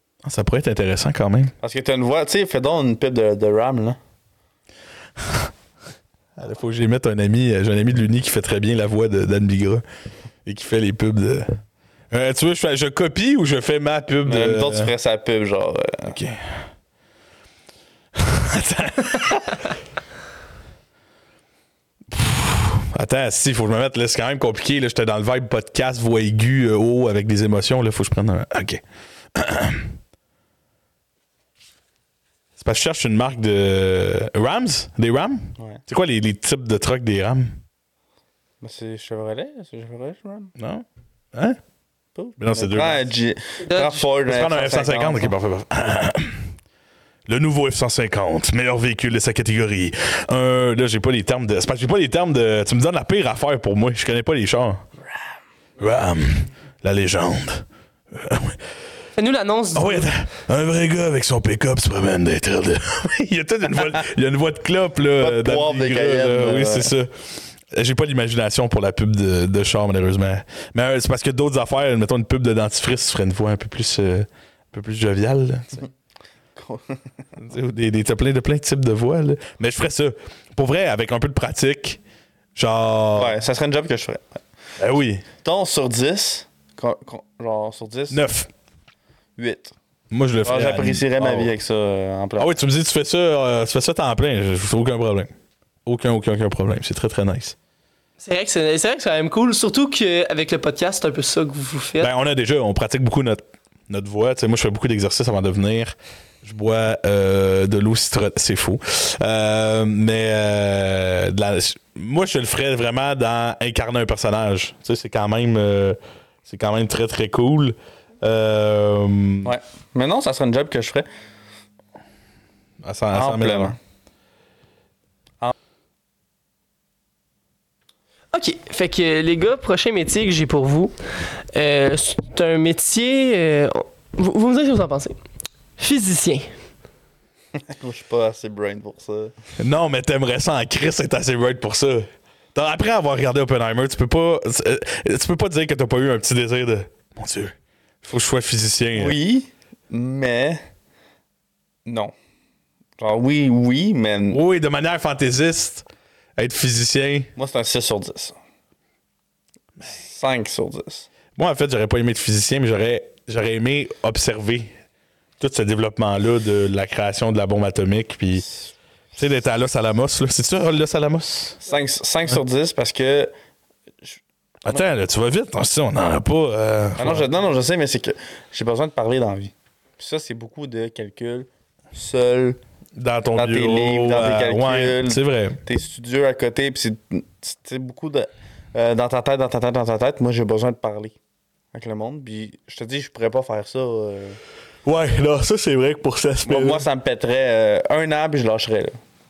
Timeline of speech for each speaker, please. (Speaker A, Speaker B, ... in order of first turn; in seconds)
Speaker A: 0.2-1.5, 5.2-5.5, 6.4-9.8, 10.4-11.6, 12.1-14.9, 16.1-16.5, 18.1-19.7, 22.1-28.8, 29.3-30.0, 32.6-37.6, 40.6-41.6, 42.4-43.1, 44.2-46.5, 47.3-54.8, 55.8-58.6, 59.7-75.9, 77.4-82.0, 82.5-83.3, 84.8-85.2, 88.1-88.5, 90.1-91.5, 92.4-95.3, 95.8-97.6, 102.0-119.5, 122.8-123.8, 139.6-149.2, 154.3-155.9, 156.4-157.3, 161.4-164.7, 165.4-168.5, 169.2-171.6, 174.7-177.3, 183.0-185.6, 194.8-196.8
Speaker B: 1.6-4.0, 14.3-16.2, 35.6-35.8, 38.6-40.5, 42.1-45.3, 65.2-66.9, 76.6-77.0, 83.2-84.4, 85.4-88.2, 89.4-89.7, 90.4-92.5, 119.4-121.1, 123.1-123.8, 137.6-139.3, 148.9-150.6, 151.9-152.1, 153.0-154.4, 157.4-158.4, 159.8-161.1, 171.6-173.3, 174.0-174.8, 177.0-182.6, 183.4-191.2, 191.7-194.4, 196.4-199.0
Speaker C: 43.7-44.0, 59.2-60.1, 98.2-102.1, 128.3-130.9, 131.5-135.2, 135.8-136.5